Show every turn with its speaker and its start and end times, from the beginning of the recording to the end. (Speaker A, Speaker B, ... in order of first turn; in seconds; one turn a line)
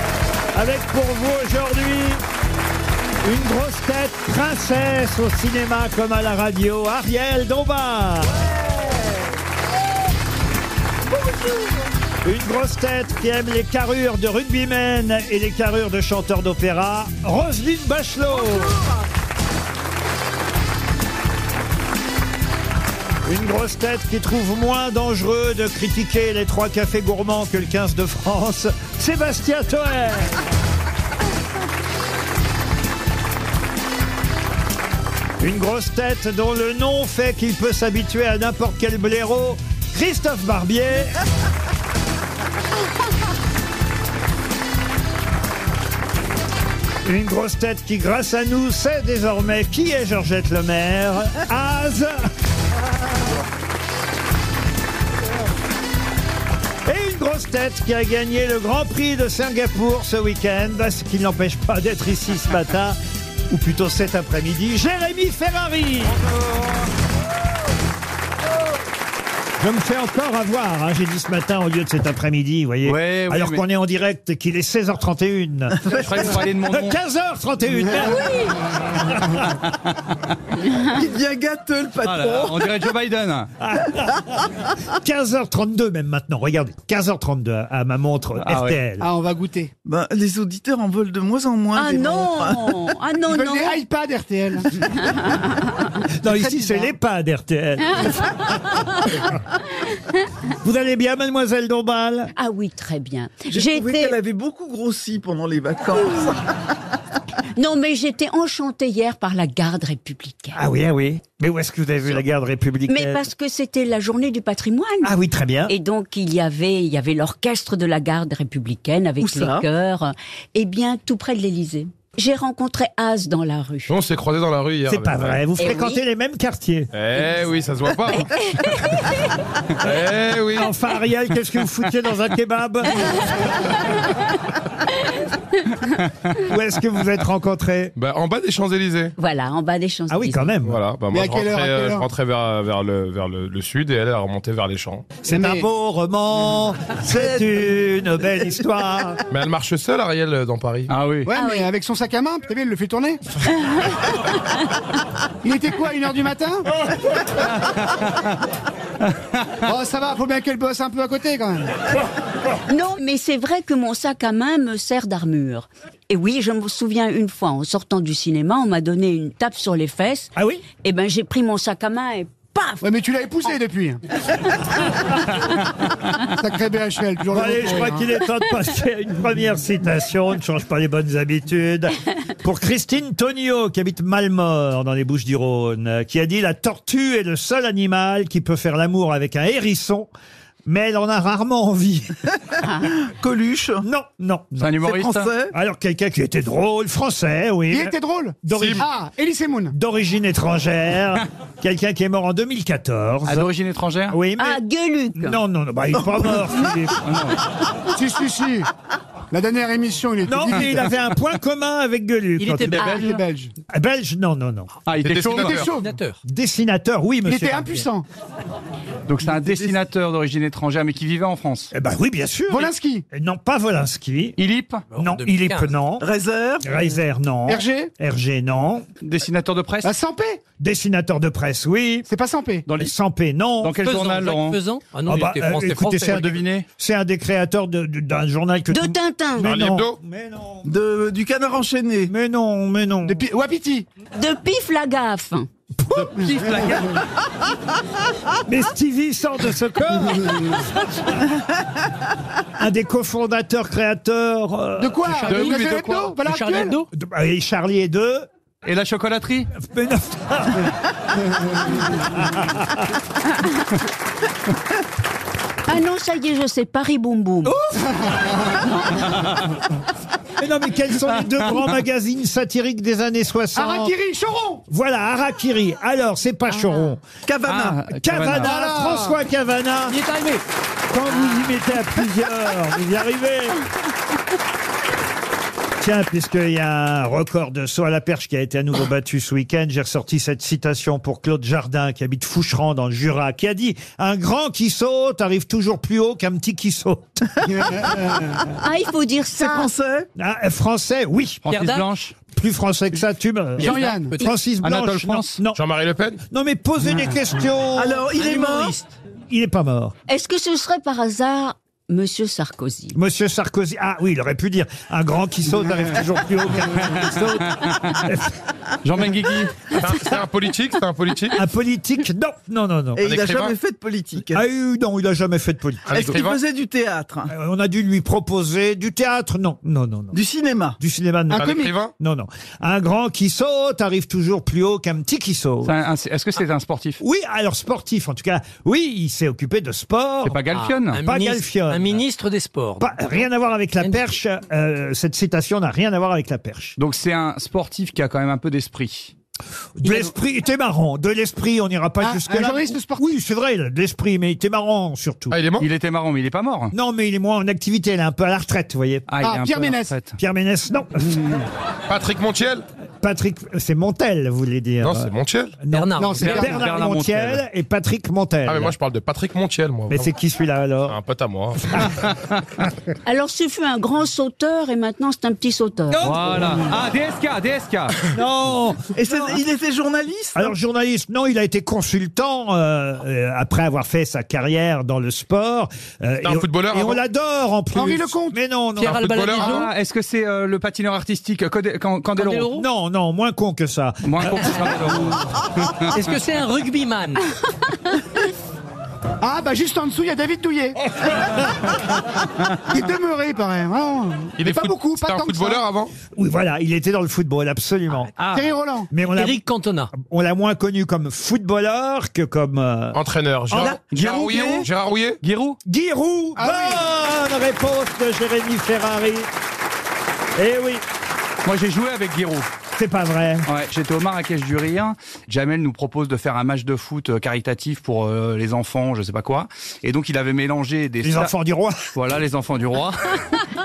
Speaker A: 0.5-2.2
Speaker A: 3.2-8.3
Speaker A: 12.2-18.8
Speaker A: 23.2-30.4
Speaker A: 35.4-41.2
Speaker A: 47.0-52.3
Speaker A: 56.9-63.0
Speaker A: 63.5-66.2
Speaker B: 66.2-66.9
Speaker A: 69.6-78.2
Speaker B: 72.8-73.6
Speaker B: 75.8-77.0
Speaker C: 80.8-82.7
Speaker B: 82.0-83.5
Speaker A: 83.6-84.5
Speaker A: 85.0-89.1
Speaker B: 88.4-88.8
Speaker D: 89.0-89.7
Speaker C: 89.8-92.8
Speaker E: 91.7-93.8
Speaker D: 93.3-94.7
Speaker A: 96.2-98.3
Speaker D: 96.3-96.9
Speaker A: 100.6-102.3
Speaker E: 102.3-104.2
Speaker C: 103.5-106.5
Speaker E: 107.6-110.6
Speaker A: 110.5-113.2
Speaker E: 112.9-115.1
Speaker A: 115.0-115.7
Speaker E: 115.7-124.0
Speaker C: 119.2-119.6
Speaker F: 123.9-125.4
Speaker A: 124.9-126.9
Speaker E: 125.6-126.0
Speaker F: 126.9-128.3
Speaker F: 129.8-130.7
Speaker A: 130.5-133.4
Speaker A: 136.4-137.9
Speaker F: 138.0-139.1
Speaker E: 139.2-140.5
Speaker A: 140.1-140.8
Speaker F: 140.7-145.2
Speaker D: 141.1-142.1
Speaker A: 145.2-149.2
Speaker D: 145.3-145.7
Speaker F: 149.3-150.9
Speaker B: 150.9-151.3
Speaker D: 151.3-153.2
Speaker E: 151.3-151.7
Speaker D: 155.4-156.7
Speaker D: 159.7-161.7
Speaker E: 162.7-172.8
Speaker A: 170.4-170.6
Speaker D: 172.8-174.0
Speaker D: 176.4-178.0
Speaker A: 177.3-190.1
Speaker A: 190.7-192.2
Speaker C: 193.1-193.8
Speaker A: 193.8-194.8
Speaker B: 194.6-195.3
Speaker C: 194.8-195.5
Speaker A: 195.5-198.9
Speaker D: 197.7-199.7
Speaker F: 198.5-198.8
Speaker A: 199.7-203.5
Speaker B: 203.3-204.2
Speaker A: 204.1-204.6
Speaker E: 204.4-205.4
Speaker A: 205.2-207.0
Speaker B: 207.0-207.4
Speaker D: 207.9-208.7
Speaker D: 209.3-210.8
Speaker A: 210.3-214.7
Speaker G: 212.4-213.2
Speaker D: 213.0-213.5
Speaker B: 214.9-215.7
Speaker F: 215.0-215.8
Speaker D: 215.3-215.9
Speaker G: 215.4-216.2
Speaker A: 216.2-217.9
Speaker D: 217.3-218.1
Speaker B: 219.1-221.7
Speaker C: 219.4-219.7
Speaker A: 221.7-224.4
Speaker D: 222.5-223.1
Speaker B: 224.4-224.9
Speaker G: 224.9-225.7
Speaker A: 224.9-226.1
Speaker C: 226.0-226.7
Speaker A: 226.6-228.9
Speaker D: 227.5-227.9
Speaker B: 229.0-229.9
Speaker D: 229.8-230.4
Speaker A: 230.6-232.1
Speaker D: 232.1-232.7
Speaker A: 232.8-233.8
Speaker B: 233.6-234.6
Speaker G: 233.8-236.4
Speaker A: 235.1-240.7
Speaker B: 236.0-236.7
Speaker E: 238.7-239.5
Speaker F: 239.4-240.0
Speaker C: 240.6-242.1
Speaker A: 242.1-243.2
Speaker D: 243.1-243.9
Speaker E: 244.2-245.5
Speaker A: 245.8-246.2
Speaker B: 246.0-247.0
Speaker A: 248.5-251.0
Speaker A: 252.6-255.2
Speaker D: 254.8-256.8
Speaker G: 255.2-256.9
Speaker B: 255.3-256.2
Speaker A: 256.9-258.3
Speaker B: 258.6-259.5
Speaker A: 259.6-260.7
Speaker A: 262.2-262.9
Speaker E: 265.7-267.6
Speaker A: 270.4-273.9
Speaker B: 271.1-271.7
Speaker D: 273.6-274.6
Speaker A: 274.7-277.0
Speaker C: 277.3-277.8
Speaker B: 277.5-278.6
Speaker A: 278.0-280.0
Speaker D: 278.4-279.2
Speaker A: 280.9-283.6
Speaker A: 285.8-298.0
Speaker D: 297.4-298.4
Speaker E: 298.6-299.7
Speaker C: 299.3-300.1
Speaker A: 300.2-301.4
Speaker B: 301.5-302.1
Speaker G: 301.5-301.9
Speaker A: 302.3-305.6
Speaker G: 303.6-304.2
Speaker D: 303.6-304.2
Speaker B: 304.6-305.4
Speaker F: 305.6-306.2
Speaker A: 306.3-308.0
Speaker C: 307.8-308.8
Speaker G: 308.1-308.9
Speaker A: 309.3-309.9
Speaker E: 310.1-313.0
Speaker A: 312.9-318.4
Speaker B: 317.6-318.0
Speaker B: 318.8-319.6
Speaker F: 319.7-321.4
Speaker A: 321.3-323.1
Speaker C: 323.0-324.4
Speaker F: 323.0-323.6
Speaker A: 324.3-326.2
Speaker F: 325.9-326.4
Speaker C: 325.9-327.3
Speaker A: 327.3-330.2
Speaker C: 330.1-330.8
Speaker A: 330.8-335.7
Speaker D: 331.3-331.8
Speaker F: 331.3-331.9
Speaker B: 335.6-337.0
Speaker A: 337.0-340.4
Speaker B: 340.2-341.0
Speaker G: 340.5-343.1
Speaker A: 340.9-342.0
Speaker A: 342.8-346.8
Speaker G: 343.8-344.1
Speaker B: 346.8-349.1
Speaker A: 349.8-355.4
Speaker D: 352.0-353.1
Speaker F: 355.3-355.7
Speaker B: 355.6-356.7
Speaker A: 356.7-359.1
Speaker B: 359.1-360.2
Speaker D: 359.2-359.9
Speaker A: 360.2-361.2
Speaker F: 361.9-362.6
Speaker A: 363.0-368.8
Speaker F: 364.8-365.6
Speaker G: 365.7-366.7
Speaker D: 366.0-366.6
Speaker B: 366.3-367.4
Speaker F: 368.5-370.1
Speaker A: 369.9-371.0
Speaker F: 370.9-371.8
Speaker E: 373.1-376.1
Speaker A: 375.9-376.6
Speaker B: 376.0-377.9
Speaker A: 378.1-379.4
Speaker C: 378.9-380.5
Speaker A: 380.4-389.6
Speaker F: 386.2-387.0
Speaker D: 387.7-388.4
Speaker F: 388.8-389.6
Speaker B: 388.8-392.5
Speaker G: 388.9-389.7
Speaker G: 392.2-392.7
Speaker A: 392.5-394.6
Speaker B: 394.0-395.9
Speaker G: 395.9-397.3
Speaker D: 399.2-400.8
Speaker D: 402.7-405.6
Speaker F: 404.4-405.9
Speaker A: 406.1-408.1
Speaker D: 408.3-408.9
Speaker A: 408.9-409.4
Speaker G: 409.0-409.9
Speaker A: 409.9-413.0
Speaker F: 412.9-415.2
Speaker A: 413.5-413.8
Speaker B: 413.9-414.7
Speaker B: 415.2-415.6
Speaker A: 415.7-419.3
Speaker D: 416.4-416.8
Speaker A: 420.4-420.8
Speaker B: 421.4-422.5
Speaker A: 422.8-423.5
Speaker B: 423.5-431.3
Speaker A: 431.0-431.9
Speaker B: 431.9-433.4